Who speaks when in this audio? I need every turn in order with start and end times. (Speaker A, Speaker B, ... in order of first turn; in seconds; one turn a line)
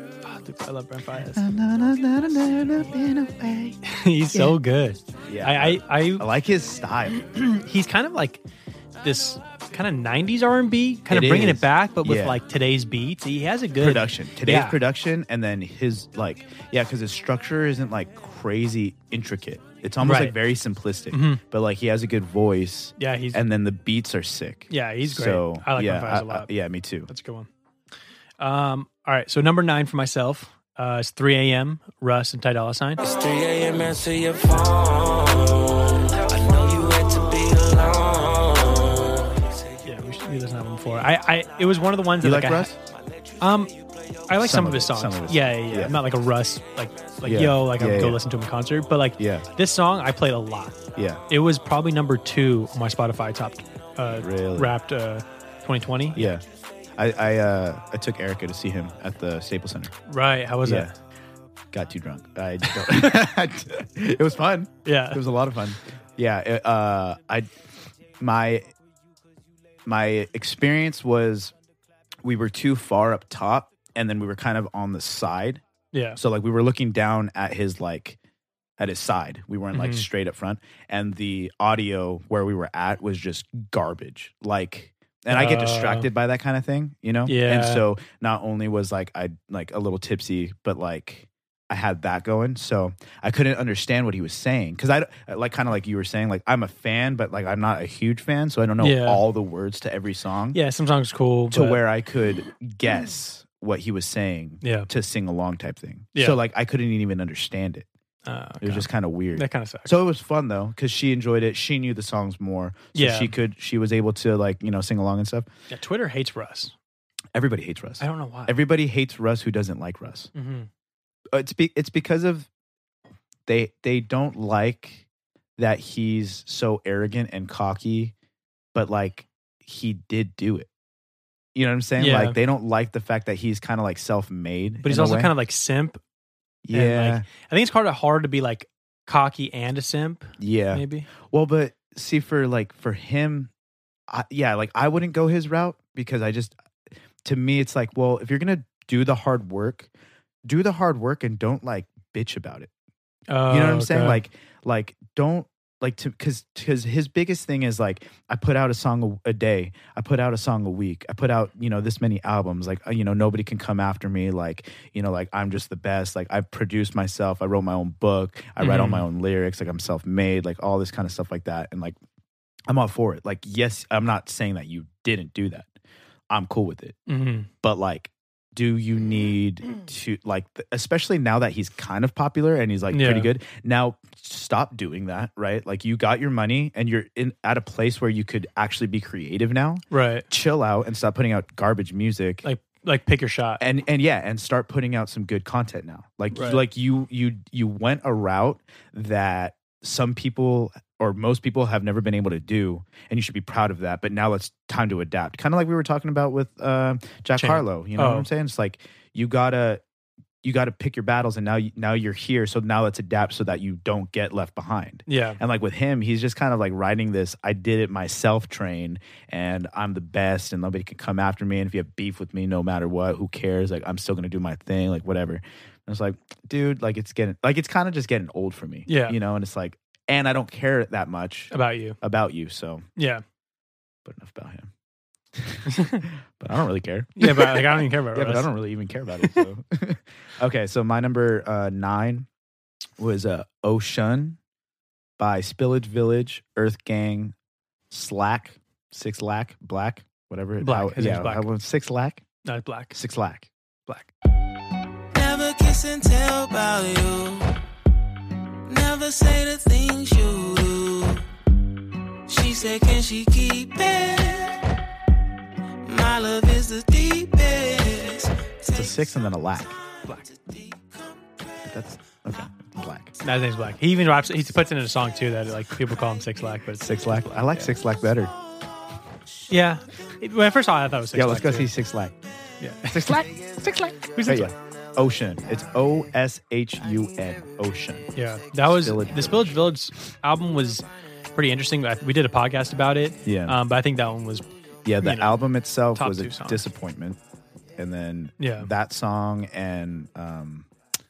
Speaker A: 0.2-1.5
Speaker B: 1.3-3.8
Speaker A: 3.9-6.3
Speaker B: 5.3-7.2
Speaker A: 7.2-8.4
Speaker A: 9.0-14.8
Speaker B: 11.1-12.4
Speaker B: 13.8-27.1
Speaker A: 20.0-20.4
Speaker A: 21.1-21.4
Speaker A: 23.0-23.4
Speaker A: 24.7-26.5
Speaker A: 27.1-27.5
Speaker A: 28.4-33.0
Speaker C: 33.0-39.8
Speaker A: 39.8-42.7
Speaker B: 42.2-42.8
Speaker A: 43.4-43.7
Speaker A: 44.3-56.3
Speaker B: 44.4-46.0
Speaker B: 47.2-48.2
Speaker B: 49.2-49.5
Speaker B: 51.0-51.2
Speaker B: 54.1-54.8
Speaker B: 56.1-56.4
Speaker B: 57.0-59.9
Speaker A: 60.1-60.9
Speaker B: 60.6-60.9
Speaker B: 61.7-67.5
Speaker A: 62.7-63.2
Speaker A: 64.8-65.2
Speaker B: 68.2-68.7
Speaker B: 69.9-71.5
Speaker B: 72.2-75.6
Speaker A: 75.9-76.2
Speaker B: 76.2-78.2
Speaker B: 78.8-100.6
Speaker A: 79.7-80.1
Speaker A: 85.3-86.1
Speaker A: 87.3-87.8
Speaker A: 98.8-99.2
Speaker A: 100.5-101.8
Speaker B: 101.5-107.9
Speaker A: 104.6-104.9
Speaker A: 108.3-110.0
Speaker B: 108.6-115.5
Speaker A: 113.0-113.3
Speaker A: 115.7-116.7
Speaker B: 117.3-120.3
Speaker A: 118.0-118.6
Speaker A: 120.3-120.7
Speaker B: 121.3-122.5
Speaker B: 123.5-125.1
Speaker B: 125.6-128.1
Speaker B: 128.7-130.7
Speaker B: 131.6-135.3
Speaker A: 132.0-132.4
Speaker A: 134.8-136.0
Speaker B: 136.7-137.3
Speaker A: 136.7-141.1
Speaker B: 140.4-143.5
Speaker B: 144.1-146.6
Speaker B: 147.2-149.9
Speaker B: 150.4-152.7
Speaker A: 153.3-154.2
Speaker B: 153.5-172.0
Speaker A: 168.6-169.1
Speaker B: 172.7-175.7
Speaker B: 176.3-177.0
Speaker A: 177.1-177.5
Speaker B: 177.6-192.5
Speaker A: 182.9-183.3
Speaker A: 189.9-190.3
Speaker A: 192.4-193.6
Speaker B: 193.6-209.8
Speaker A: 196.3-196.6
Speaker A: 207.4-208.3
Speaker B: 210.4-232.8
Speaker A: 215.1-215.4
Speaker A: 228.9-229.2
Speaker A: 231.5-232.0
Speaker A: 233.0-233.2
Speaker B: 234.1-234.7
Speaker B: 235.4-242.3
Speaker A: 235.8-236.0
Speaker A: 237.2-238.5
Speaker B: 243.0-244.4
Speaker B: 245.2-247.3
Speaker B: 247.9-252.2
Speaker A: 250.6-251.5
Speaker A: 252.4-253.0
Speaker B: 252.9-253.5
Speaker C: 255.1-257.6
Speaker C: 258.7-261.2
Speaker C: 262.3-264.6
Speaker C: 265.8-269.0
Speaker B: 268.7-269.8
Speaker C: 270.1-271.0
Speaker B: 271.6-273.2
Speaker A: 273.2-277.7
Speaker B: 276.8-278.3
Speaker A: 279.5-281.7
Speaker B: 281.1-282.1
Speaker A: 282.6-284.5
Speaker B: 282.9-288.1
Speaker A: 288.1-294.5
Speaker B: 288.7-289.6
Speaker B: 293.2-293.6
Speaker B: 294.9-297.2
Speaker A: 295.0-295.4
Speaker A: 295.9-296.6
Speaker B: 297.8-300.7
Speaker A: 298.4-298.7